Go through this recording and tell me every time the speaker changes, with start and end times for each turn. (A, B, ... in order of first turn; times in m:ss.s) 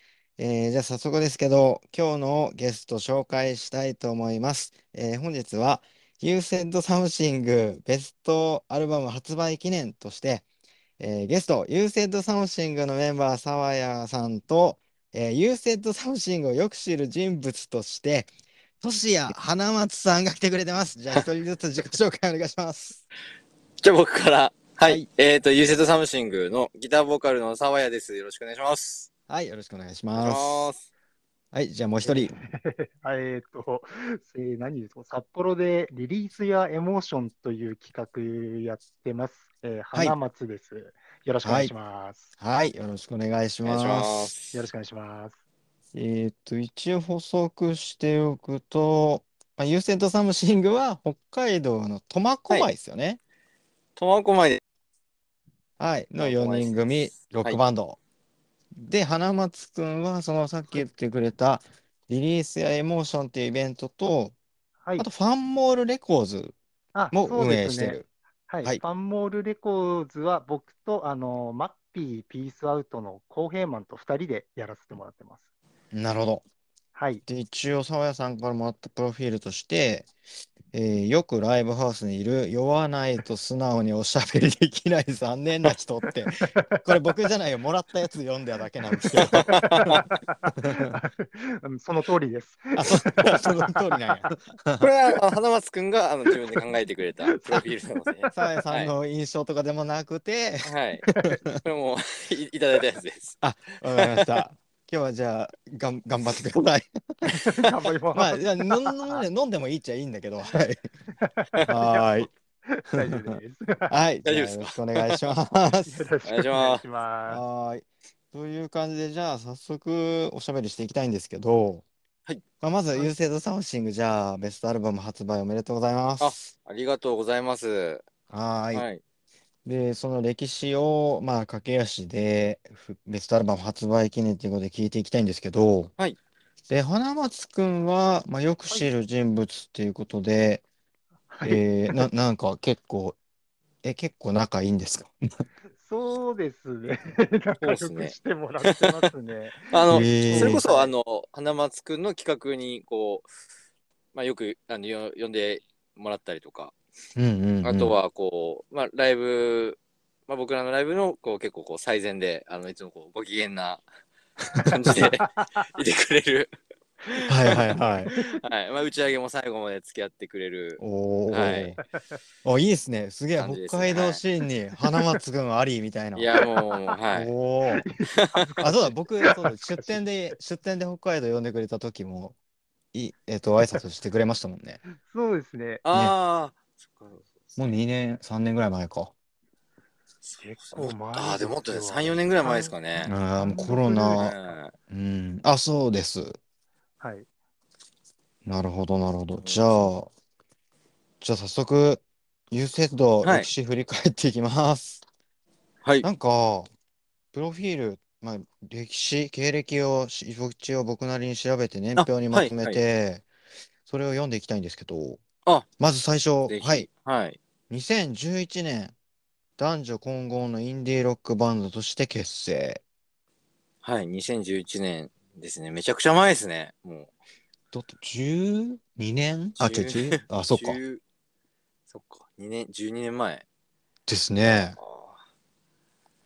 0:00.4-0:10.4 A
0:11.0-0:18.3 A
0:18.8-0:23.0 A
0:23.8-0:29.1 B
0:29.3-0:30.7 A
0:30.1-0:30.8 B
0:31.5-0:32.3 A
0:32.0-0:42.3 C
0:41.4-0:41.7 A
0:42.4-0:44.3 A
0:43.6-0:44.6 B
0:44.5-0:45.4 C
0:45.9-0:53.2 A
0:54.0-0:54.6 B
0:55.8-0:58.0 A
0:56.2-0:57.6 B
0:58.8-1:04.3 A
1:05.0-1:06.5 A
1:06.9-1:15.5 C
1:07.1-1:08.1 A
1:15.9-1:16.4 A
1:16.9-1:17.2 C
1:17.2-1:20.1 A
1:20.7-1:30.1 A
1:26.4-1:26.8 C
1:29.1-1:30.0 B
1:29.5-1:34.3 C
1:30.6-1:31.0 A
1:32.8-1:34.9 A
1:34.8-1:38.9 B
1:37.3-1:38.5 C
1:38.3-1:40.7 A
1:40.6-1:41.1 B
1:41.2-1:41.6 A
1:41.6-1:43.4 B
1:43.4-1:47.4 A
1:44.0-1:44.3 B
1:47.3-1:49.2 C
1:48.1-1:50.9 A
1:51.2-1:53.9 C
1:51.7-1:52.3 A
1:52.9-1:53.4 A
1:53.9-1:56.0 A
1:54.2-1:55.2 B
1:55.8-1:57.4 C
1:56.2-1:56.8 B
1:57.3-2:01.8 A
2:02.6-2:06.4 A
2:06.2-2:08.0 B
2:08.3-2:08.8 A
2:08.7-2:09.0 B
2:09.6-2:15.9 A
2:16.7-2:20.6 A
2:21.3-2:22.0 C
2:21.4-2:23.2 A
2:23.8-2:25.2 A
2:25.8-2:30.9 C
2:27.6-2:29.0 B
2:29.7-2:33.3 B
2:29.9-2:30.6 A
2:34.1-2:36.7 B
2:37.2-2:38.0 A
2:37.6-2:43.8 B
2:44.6-2:46.5 B
2:44.6-2:45.1 A
2:44.8-2:45.7 C
2:47.1-2:47.6 B
2:47.3-2:48.1 A
2:48.1-2:48.4 C
2:48.4-2:51.8 B
2:50.8-2:51.8 A
2:52.4-2:56.3 A
2:53.4-2:54.2 B
2:56.2-2:57.3 B
2:57.1-2:57.8 A
2:57.7-2:58.7 C
2:58.1-2:58.6 B
2:58.6-3:02.4 A
2:59.2-3:00.0 C
3:02.9-3:04.8 A
3:05.0-3:05.8 C
3:05.8-3:07.7 B
3:07.6-3:09.1 A
3:10.2-3:13.1 B
3:10.4-3:12.7 C
3:13.0-3:14.3 A
3:13.4-3:14.3 C
3:14.1-3:14.7 B
3:14.9-3:16.4 A
3:17.0-3:17.3 C
3:18.4-3:20.1 A
3:19.4-3:19.9 B
3:21.2-3:25.0 A
3:23.2-3:23.5 B
3:26.0-3:26.7 A
3:27.3-3:33.2 A
3:32.0-3:32.8 B
3:33.8-3:35.2 A
3:35.8-3:36.9 A
3:36.5-3:37.4 B
3:37.7-3:38.9 A
3:39.6-3:42.8 A
3:43.8-3:47.1 B
3:47.7-3:50.8 A
3:49.6-3:51.0 B
3:51.9-3:53.4 B
3:54.1-3:54.8 A
3:54.8-3:55.2 B